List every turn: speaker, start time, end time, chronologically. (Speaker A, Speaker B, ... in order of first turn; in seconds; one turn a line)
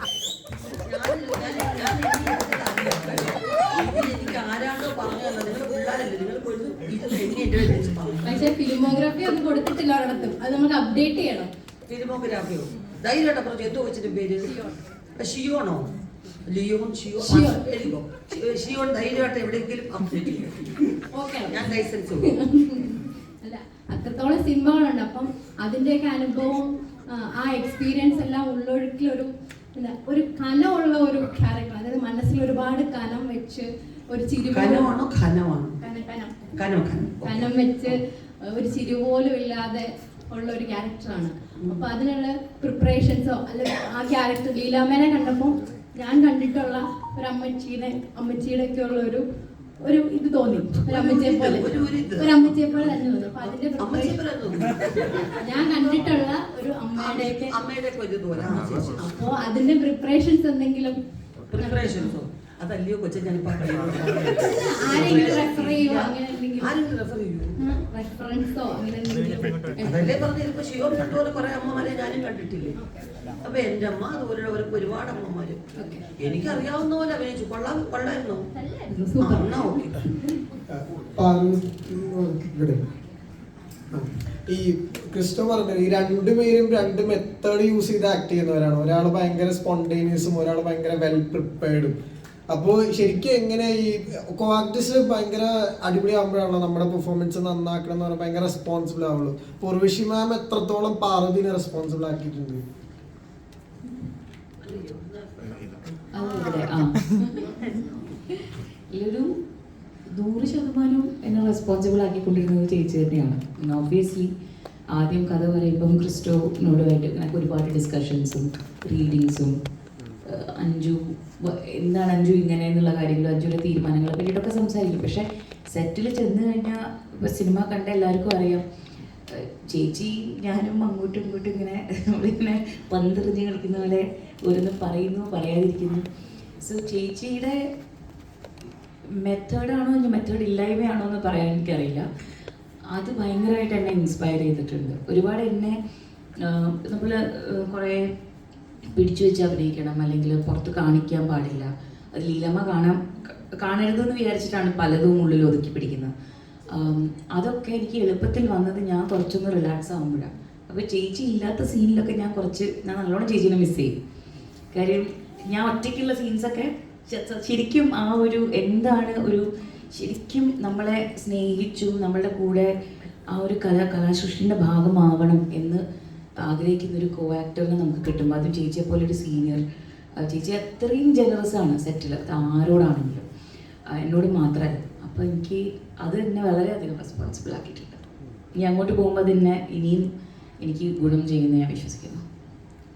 Speaker A: 0.7-8.4
Speaker B: 8.2-11.5
Speaker A: 11.9-14.6
Speaker B: 14.4-14.8
Speaker A: 15.2-15.9
Speaker A: 16.5-21.0
Speaker B: 17.2-17.6
Speaker B: 21.1-34.9
Speaker A: 21.5-22.3
Speaker A: 34.5-35.8
Speaker B: 35.8-36.5
Speaker A: 36.5-37.9
Speaker B: 37.2-49.2
Speaker B: 49.9-54.2
Speaker A: 50.9-52.4
Speaker A: 53.8-55.3
Speaker B: 55.4-57.5
Speaker A: 57.0-59.1
Speaker B: 59.0-61.0
Speaker A: 61.5-67.5
Speaker B: 61.6-62.1
Speaker B: 64.4-66.7
Speaker B: 67.6-69.9
Speaker A: 69.8-72.8
Speaker A: 73.4-75.6
Speaker B: 75.8-76.1
Speaker A: 76.2-78.5
Speaker B: 78.8-79.7
Speaker A: 79.2-80.0
Speaker C: 80.7-82.8
Speaker C: 83.9-92.0
Speaker C: 92.5-102.6
Speaker A: 104.6-108.0
Speaker D: 106.1-107.1
Speaker D: 108.9-109.3
Speaker D: 110.1-114.3
Speaker D: 114.9-119.5
Speaker D: 120.2-128.6
Speaker D: 129.3-136.0
Speaker D: 136.6-137.7
Speaker D: 139.1-142.0
Speaker D: 142.9-145.8
Speaker D: 146.4-148.1
Speaker D: 148.9-156.1
Speaker D: 156.7-163.9
Speaker D: 164.7-172.7
Speaker D: 173.3-175.8
Speaker D: 176.4-179.6
Speaker D: 180.2-183.2
Speaker D: 184.0-188.0
Speaker D: 188.6-190.1
Speaker D: 190.6-192.2